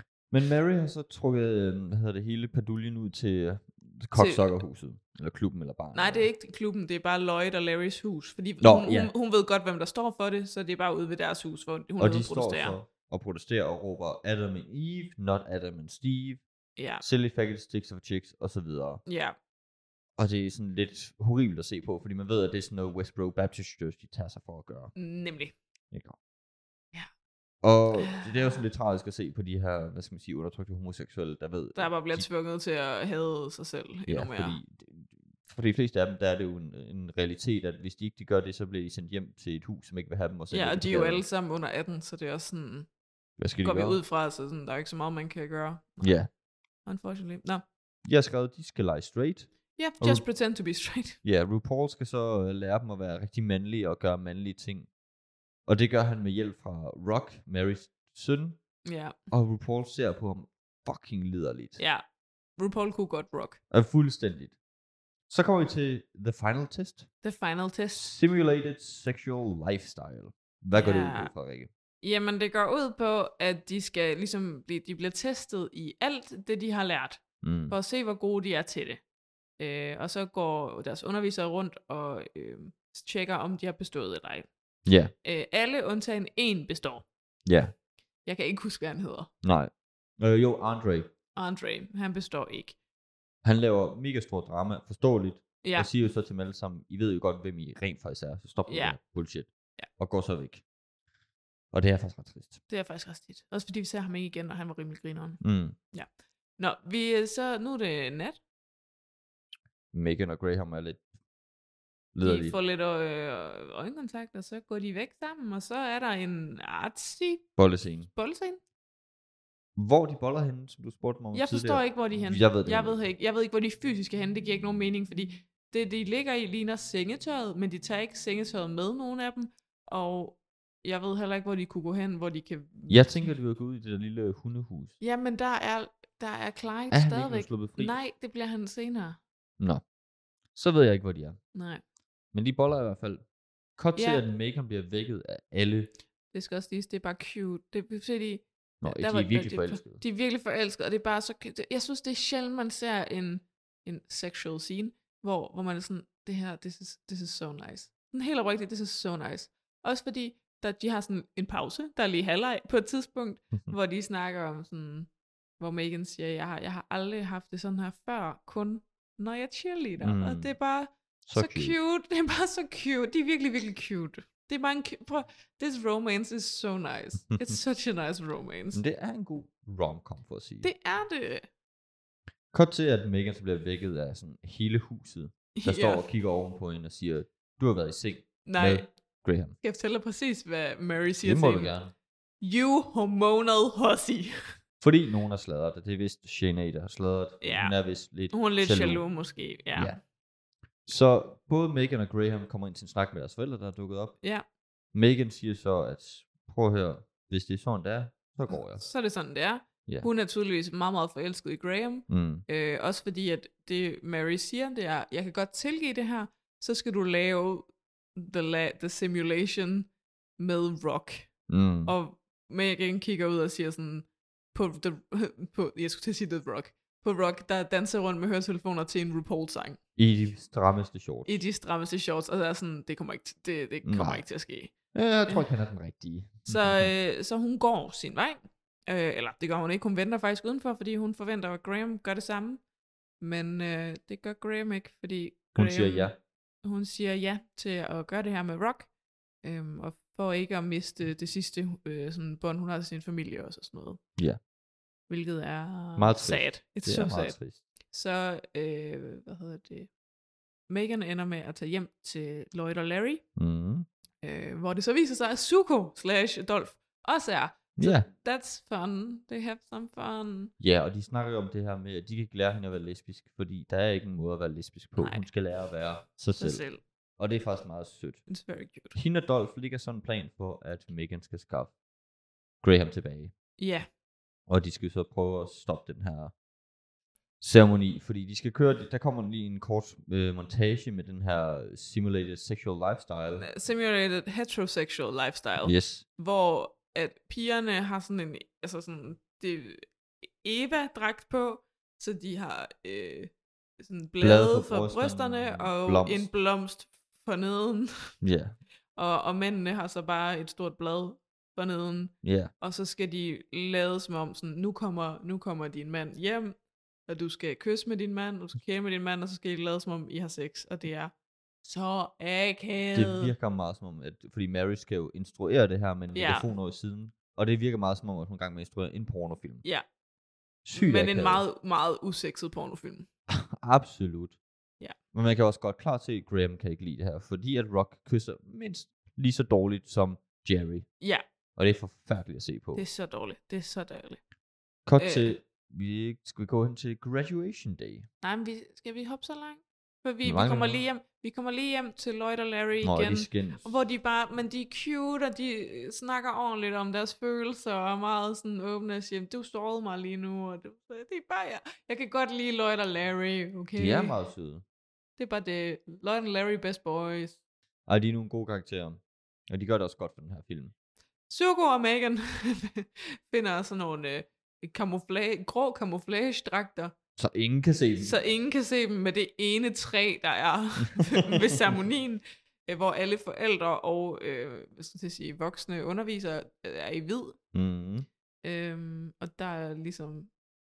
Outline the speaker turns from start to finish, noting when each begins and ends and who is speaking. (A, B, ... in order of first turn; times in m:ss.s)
0:00.3-0:06.3 A
0:04.1-0:04.6 B
0:05.9-0:12.8 B
0:08.6-0:09.1 A
0:12.0-0:16.4 A
0:16.8-0:17.0 B
0:17.0-0:19.0 A
0:19.0-0:19.4 B
0:20.2-0:24.9 A
0:25.0-0:25.5 B
0:27.6-0:32.2 A
0:27.9-0:28.6 B
0:31.7-0:34.6 B
0:34.1-0:41.2 A
0:40.5-0:42.9 B
0:43.4-0:44.0 A
0:43.6-0:46.2 B
0:46.0-0:46.3 A
0:46.8-0:47.6 B
0:48.0-0:50.2 A
0:49.8-0:51.2 B
0:51.2-0:54.9 A
0:55.7-0:58.6 A
0:58.8-0:59.2 B
0:59.3-1:01.8 A
1:01.8-1:02.0 B
1:02.6-1:03.6 B
1:03.7-1:04.5 A
1:05.3-1:07.1 A
1:07.2-1:08.1 B
1:08.0-1:11.7 A
1:10.7-1:11.3 B
1:12.0-1:19.0 B
1:17.4-1:17.8 A
1:19.6-1:24.5 B
1:24.8-1:25.1 A
1:25.2-1:27.1 B
1:27.4-1:27.7 A
1:28.2-1:29.3 B
1:29.4-1:31.1 A
1:31.3-1:32.8 B
1:33.4-1:40.6 A
1:35.6-1:35.9 B
1:38.7-1:39.0 B
1:41.7-1:42.6 A
1:42.7-1:45.4 B
1:45.4-1:45.8 A
1:45.9-1:48.4 B
1:49.9-1:51.0 A
1:52.1-1:52.6 A
1:52.2-1:57.5 B
1:57.6-1:58.1 A
1:58.1-1:58.6 B
1:59.8-2:03.0 A
2:01.3-2:13.3 B
2:12.9-2:15.0 A
2:15.0-2:19.2 B
2:16.9-2:18.0 A
2:20.5-2:21.4 A
2:21.5-2:21.8 B
2:22.3-2:25.9 A
2:24.0-2:24.2 B
2:26.3-2:58.8 B
2:28.8-2:30.0 A
2:50.0-2:50.5 A
2:51.2-2:51.8 A
2:58.7-3:00.7 A
3:00.6-3:01.5 B
3:02.5-3:09.6 A
3:05.5-3:06.1 B
3:08.4-3:08.9 B
3:09.6-3:11.8 B
3:11.2-3:11.9 A
3:12.4-3:14.3 B
3:14.8-3:19.0 A
3:17.4-3:17.7 B
3:18.3-3:20.0 B
3:20.8-3:24.2 A
3:24.9-3:28.8 A
3:28.5-3:41.3 B
3:32.1-3:32.4 A
3:41.5-3:41.9 A
3:41.8-3:49.8 B
3:50.0-3:51.4 A
3:51.2-3:54.7 B
3:53.8-3:54.2 A
3:54.9-3:56.9 A
3:56.4-4:02.6 B
4:03.2-4:08.9 B
4:05.5-4:06.2 A
4:09.4-4:14.0 B
4:15.1-4:17.4 B
4:16.0-4:17.6 A
4:17.9-4:19.9 B
4:20.7-4:23.2 B
4:23.4-4:23.9 A
4:24.2-4:30.5 B
4:27.8-4:28.1 A
4:30.6-4:36.6 A
4:35.0-4:35.3 B
4:36.4-4:36.8 B
4:37.2-4:38.2 A
4:38.3-4:39.0 B
4:38.9-4:41.7 A
4:42.6-4:43.3 A
4:43.6-4:43.9 B
4:44.5-4:46.3 A
4:47.4-4:53.4 A
4:53.4-4:59.8 B
4:55.6-4:56.0 A
5:00.4-5:08.1 B
5:04.2-5:06.3 A
5:08.2-5:08.6 A
5:08.9-5:23.3 B
5:12.2-5:12.5 A
5:22.9-5:29.6 A
5:26.1-5:26.5 B
5:30.6-5:31.4 A
5:30.7-5:33.1 B
5:33.3-5:34.4 A
5:35.1-5:40.9 A
5:41.0-5:41.2 B
5:41.6-5:42.8 A
5:42.7-5:44.2 B
5:44.8-5:48.0 A
5:45.0-5:45.3 B
5:48.2-6:04.2 B
5:50.2-5:50.8 A
5:52.8-5:53.7 A
6:03.8-6:04.6 A
6:05.2-6:07.4 B
6:07.9-6:10.7 A
6:11.3-6:16.9 B
6:17.2-6:18.2 A
6:18.0-6:27.4 B
6:21.1-6:21.7 A
6:27.5-6:28.1 A
6:28.4-6:30.3 B